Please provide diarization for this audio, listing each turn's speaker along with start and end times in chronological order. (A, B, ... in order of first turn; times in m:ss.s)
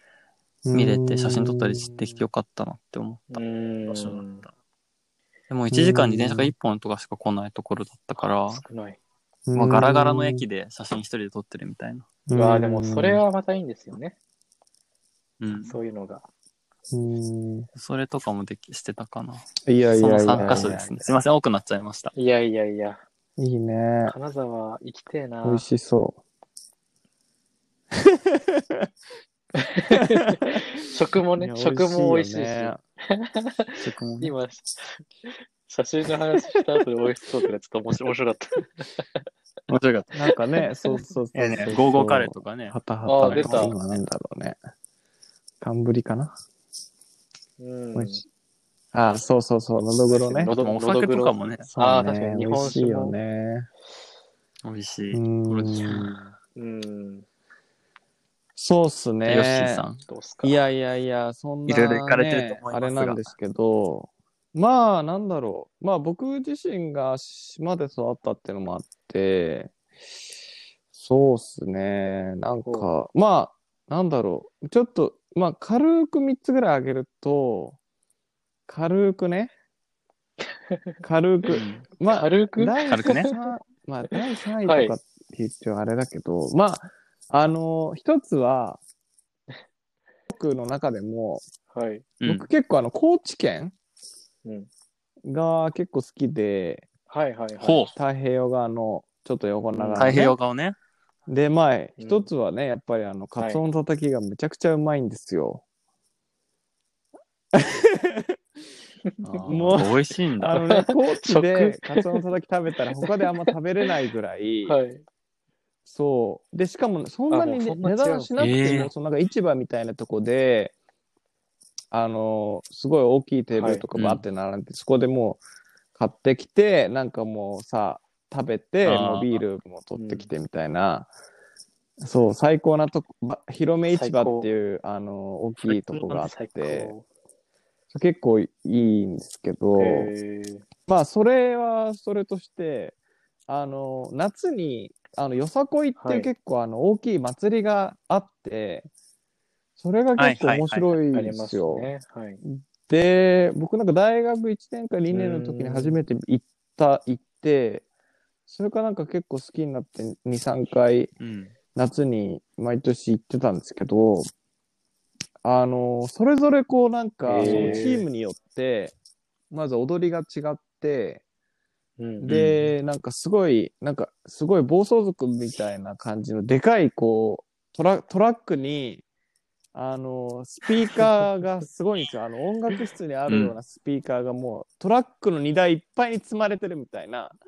0:00.6-0:02.1 A
0:00.7-0:04.5 B
0:03.3-0:04.4 C
0:05.5-0:08.6 B
0:05.7-0:06.5 A
0:08.2-0:09.0 C
0:09.5-0:10.4 A
0:09.5-0:12.1 B
0:12.3-0:13.2 A
0:12.3-0:14.2 C
0:15.4-0:15.8 B
0:15.6-0:16.2 C
0:16.9-0:17.7 A
0:17.7-0:22.1 B
0:19.6-0:21.0 A
0:22.1-0:23.0 C
0:23.4-0:24.1 A
0:24.1-0:25.6 C
0:25.4-0:26.2 A
0:27.9-0:28.9 A
0:29.6-0:39.2 C
0:29.9-0:30.6 A
0:31.4-0:32.8 A
0:33.8-0:34.3 B
0:39.7-0:40.2 B
0:40.1-0:44.6 A
0:41.3-0:43.9 B
0:43.0-0:43.8 C
0:45.6-0:46.4 A
0:47.6-0:48.2 C
0:47.9-0:48.2 A
0:48.9-0:50.5 A
0:50.2-0:53.1 C
0:50.5-0:51.7 B
0:51.7-0:53.7 A
0:54.6-0:56.3 B
0:55.1-0:56.1 A
0:56.6-0:57.2 C
0:58.6-1:09.7 A
0:59.2-0:59.9 B
1:00.0-1:00.6 C
1:01.7-1:03.3 B
1:10.9-1:17.8 A
1:12.6-1:12.9 C
1:18.7-1:19.5 A
1:21.0-1:28.8 A
1:21.5-1:21.8 B
1:22.1-1:23.3 C
1:22.9-1:23.3 B
1:24.6-1:24.9 C
1:30.3-1:31.4 A
1:31.7-1:32.1 C
1:32.2-1:32.5 B
1:32.2-1:33.7 A
1:35.2-1:36.8 A
1:37.1-1:37.9 C
1:37.6-1:37.9 B
1:37.9-1:40.4 A
1:39.7-1:40.2 C
1:40.0-1:40.8 B
1:41.3-1:45.6 A
1:42.0-1:42.3 C
1:47.5-1:48.4 A
1:49.2-1:49.8 C
1:49.4-1:50.6 B
1:49.4-1:54.8 A
1:50.6-1:52.2 C
1:53.0-1:53.9 C
1:54.6-1:55.0 C
1:55.8-2:00.7 A
1:57.3-1:58.5 C
1:58.4-1:58.9 B
2:01.9-2:05.4 A
2:03.6-2:03.8 C
2:04.0-2:04.2 B
2:06.0-2:11.1 A
2:08.8-2:09.3 B
2:09.9-2:10.3 C
2:12.0-2:16.9 A
2:13.9-2:14.5 C
2:15.6-2:17.0 C
2:17.9-2:20.1 A
2:19.8-2:20.6 C
2:20.9-2:23.0 A
2:23.5-2:28.9 A
2:26.0-2:26.3 C
2:29.8-2:31.9 A
2:30.2-2:30.8 B
2:31.1-2:32.4 C
2:32.4-2:37.8 A
2:35.1-2:36.0 C
2:38.5-2:41.1 A
2:41.2-2:41.5 B
2:41.7-2:44.3 A
2:45.4-2:48.9 A
2:47.2-2:48.0 C
2:47.3-2:47.9 B
2:49.5-2:51.2 A
2:52.0-2:52.5 C
2:52.2-2:59.0 A
2:52.3-2:52.7 B
2:59.7-3:07.4 A
3:03.3-3:03.5 B